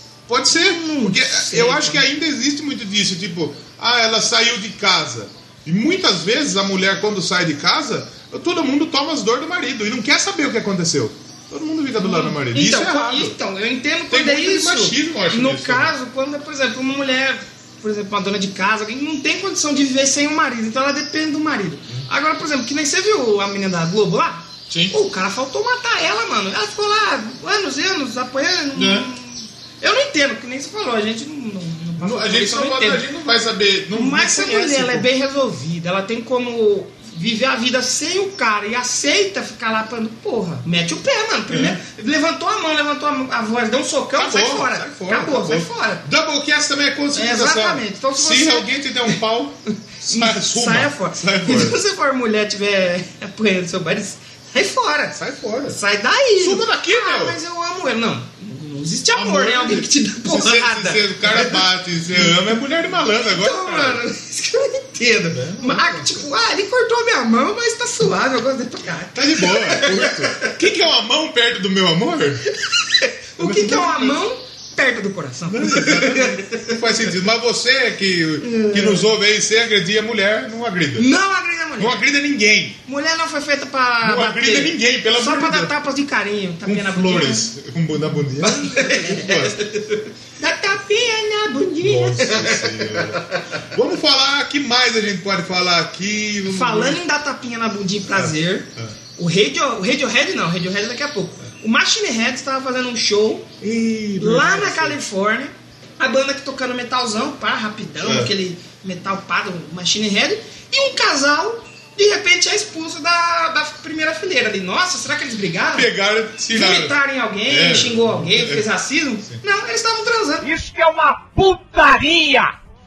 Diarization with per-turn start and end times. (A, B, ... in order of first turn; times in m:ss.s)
0:00.3-0:13.4 A
0:00.5-0:02.0 B
0:12.0-0:33.0 B
0:14.1-0:15.9 A
0:24.7-0:25.0 A
0:28.7-0:29.1 A
0:32.0-0:35.1 A
0:33.9-0:46.0 B
0:41.5-0:41.8 A
0:44.2-0:51.8 A
0:47.2-0:48.7 B
0:50.1-1:01.6 B
0:55.2-0:55.8 A
0:56.4-0:57.4 A
0:59.1-1:04.0 A
1:03.2-1:10.5 B
1:05.3-1:06.3 A
1:09.1-1:12.5 A
1:12.7-1:16.7 B
1:13.4-1:14.2 A
1:15.5-1:21.1 A
1:18.4-1:19.1 B
1:21.0-1:22.0 B
1:21.8-1:22.8 A
1:22.9-1:27.5 B
1:24.0-1:25.7 A
1:26.6-1:29.6 A
1:28.4-1:33.0 B
1:31.8-1:37.0 A
1:36.5-1:43.5 B
1:38.1-1:39.0 A
1:43.6-1:45.0 A
1:44.2-1:55.9 B
1:48.0-1:48.3 A
1:55.7-1:58.7 A
1:56.5-2:00.5 B
2:00.4-2:02.5 C